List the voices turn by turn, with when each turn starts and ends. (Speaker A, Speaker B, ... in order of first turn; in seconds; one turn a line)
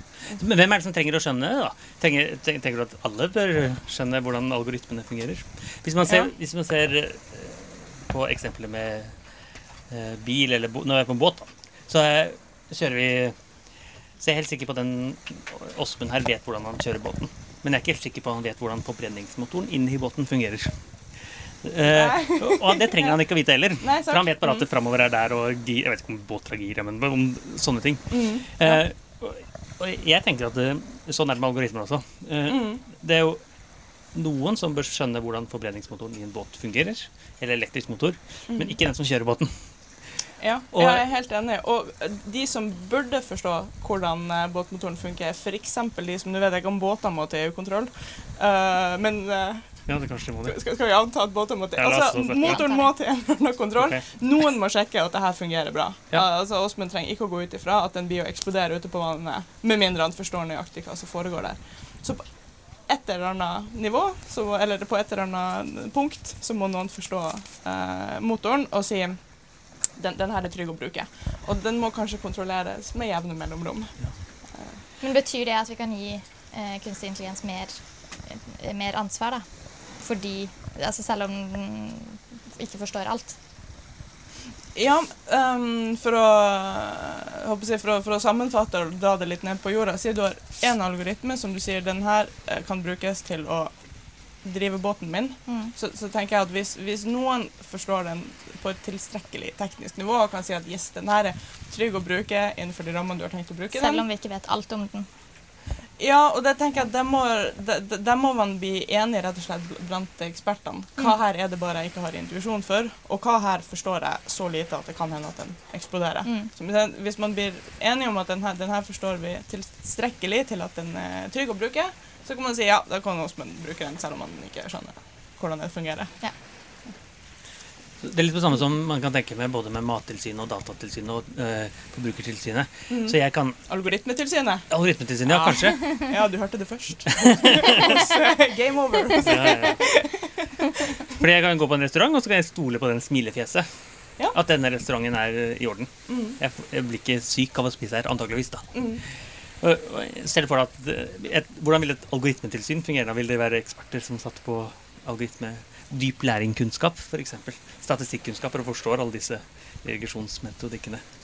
Speaker A: 0.3-9.2
Speaker B: 6.1-6.3
Speaker A: 9.9-13.3
Speaker A: 14.2-33.4
Speaker B: 21.9-23.2
Speaker B: 23.8-24.6
Speaker B: 28.1-28.8
Speaker B: 32.5-32.8
Speaker A: 34.1-39.5
Speaker B: 38.5-38.8
Speaker B: 40.4-49.9
Speaker A: 40.7-41.0
Speaker A: 49.9-50.6
Speaker B: 50.4-74.8
Speaker A: 51.8-52.6
Speaker C: 52.3-52.9
Speaker A: 53.8-54.0
Speaker C: 75.0-83.4
Speaker B: 84.7-104.0
Speaker C: 95.5-95.7
Speaker C: 103.7-105.1
Speaker B: 106.0-126.2
Speaker C: 116.2-116.5
Speaker A: 128.0-133.6
Speaker B: 132.9-134.7
Speaker A: 134.7-135.8
Speaker B: 135.2-140.8
Speaker A: 137.2-138.1
Speaker A: 139.2-139.8
Speaker A: 141.1-143.7
Speaker A: 144.3-161.0
Speaker B: 146.1-146.4
Speaker B: 148.7-149.0